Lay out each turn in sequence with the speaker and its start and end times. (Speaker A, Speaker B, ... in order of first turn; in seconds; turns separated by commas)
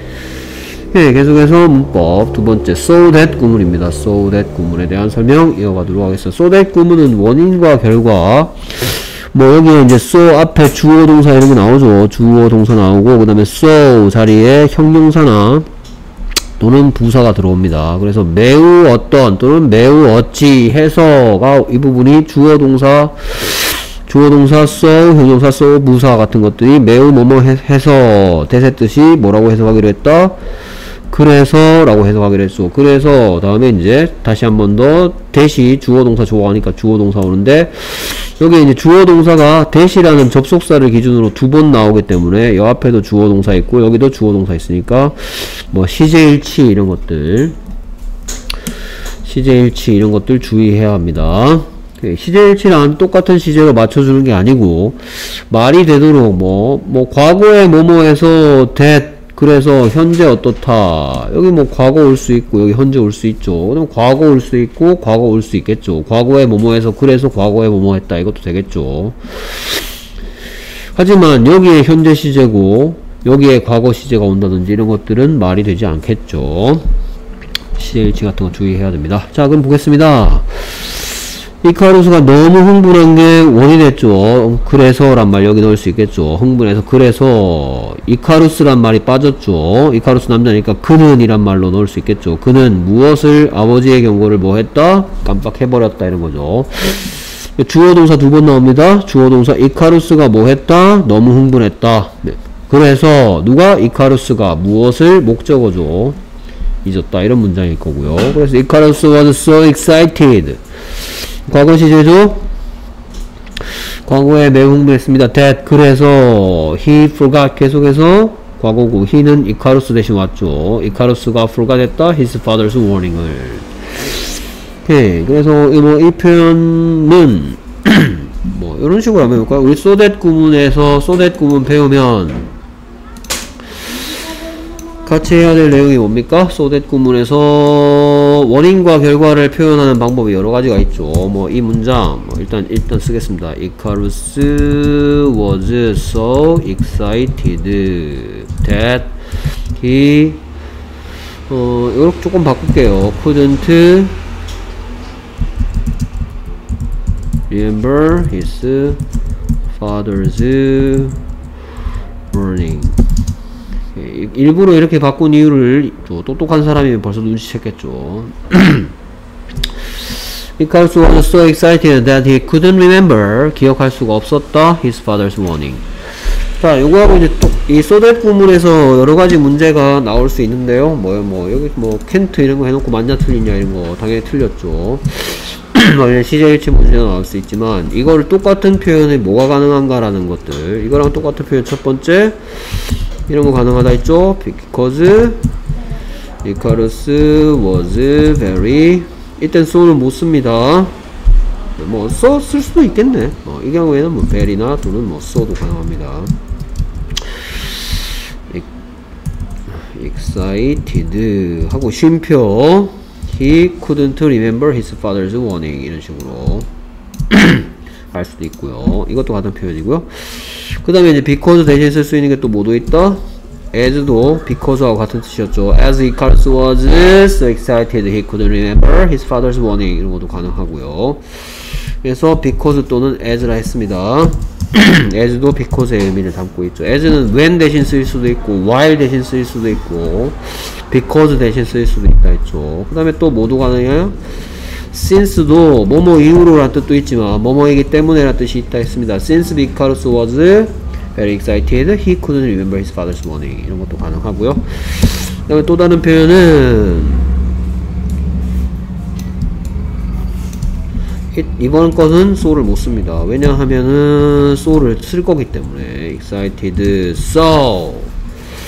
Speaker A: 0.9-15.7, Speaker A: 16.6-30.4, Speaker A: 31.1-47.5, Speaker A: 49.2-69.8, Speaker A: 71.0-76.9, Speaker A: 77.8-106.2, Speaker A: 106.8-112.5, Speaker A: 114.0-123.7, Speaker A: 124.8-132.5, Speaker A: 135.0-149.1, Speaker A: 149.7-150.4, Speaker A: 151.5-154.2, Speaker A: 157.5-159.0, Speaker A: 159.8-161.2, Speaker A: 162.3-163.0, Speaker A: 163.9-168.9, Speaker A: 170.6-175.8, Speaker A: 176.6-192.4, Speaker A: 193.3-195.4, Speaker A: 196.4-200.9, Speaker A: 201.8-206.3, Speaker A: 209.8-216.7, Speaker A: 217.3-244.2, Speaker A: 244.9-257.3, Speaker A: 261.3-268.1